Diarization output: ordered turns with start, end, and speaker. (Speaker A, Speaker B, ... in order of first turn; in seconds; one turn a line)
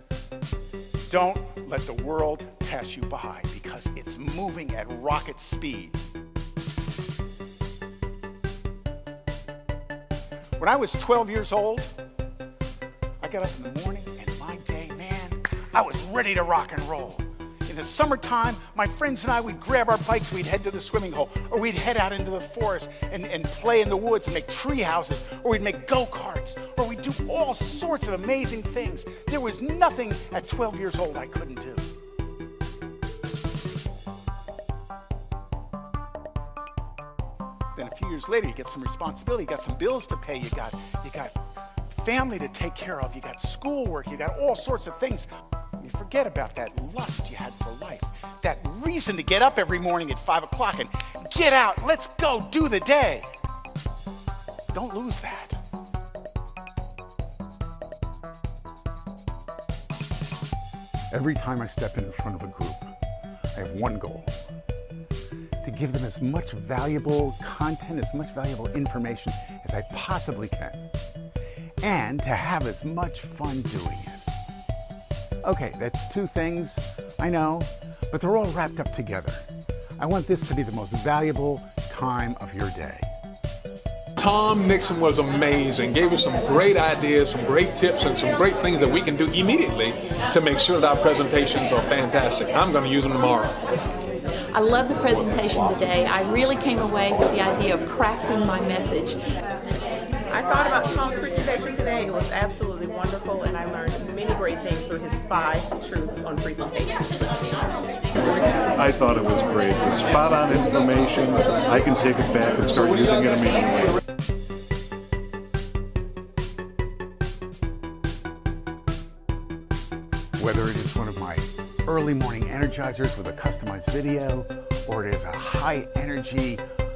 Speaker A: 1.1-6.0
Speaker A: 10.6-11.9
Speaker A: 13.2-31.9
Speaker A: 37.7-41.4
Speaker A: 41.9-53.3
Speaker A: 54.7-55.6
Speaker A: 61.1-62.9
Speaker A: 63.5-64.4
Speaker A: 65.6-70.9
Speaker A: 71.8-74.3
Speaker A: 75.4-79.5
Speaker A: 80.0-83.1
Speaker B: 84.2-93.6
Speaker C: 94.5-99.2
Speaker D: 100.3-107.5
Speaker E: 108.7-114.0
Speaker A: 120.4-126.6